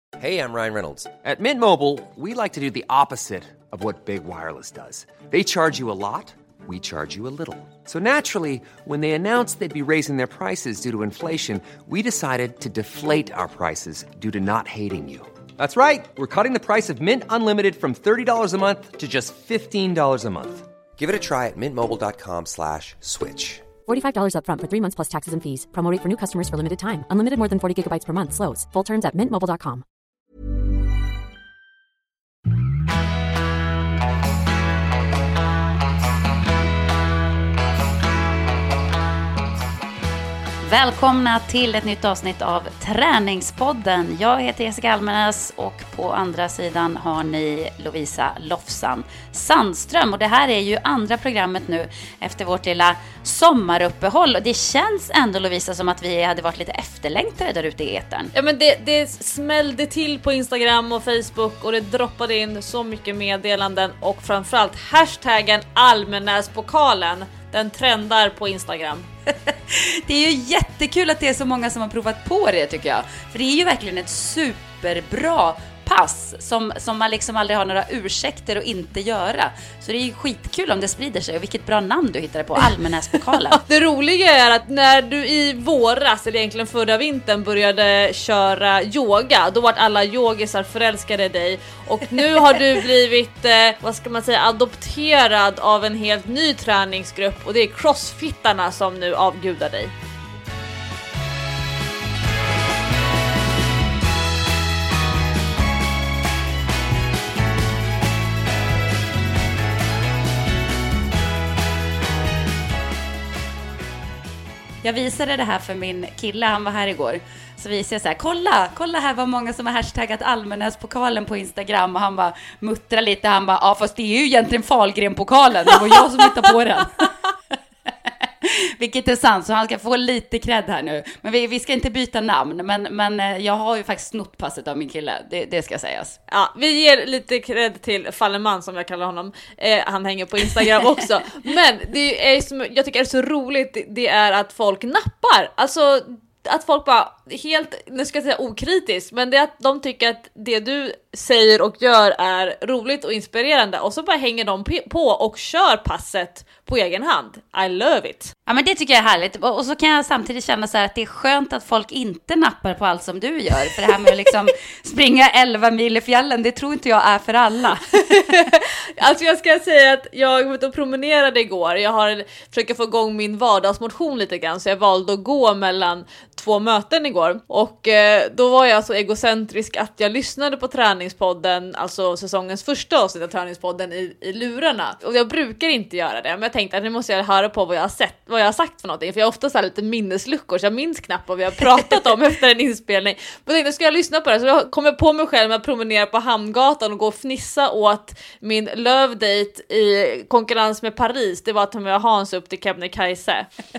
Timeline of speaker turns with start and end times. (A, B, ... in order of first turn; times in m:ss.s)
0:00.2-0:23.7 A
0:23.8-0:29.8 B
0:40.6-0:58.3 C
0:58.3-1:09.1 D
1:09.4-1:23.6 C
1:23.6-1:39.9 D
1:54.8-2:07.1 C
2:08.4-2:16.2 C
2:16.3-2:38.3 D
2:38.5-2:48.5 C
2:48.1-3:23.5 D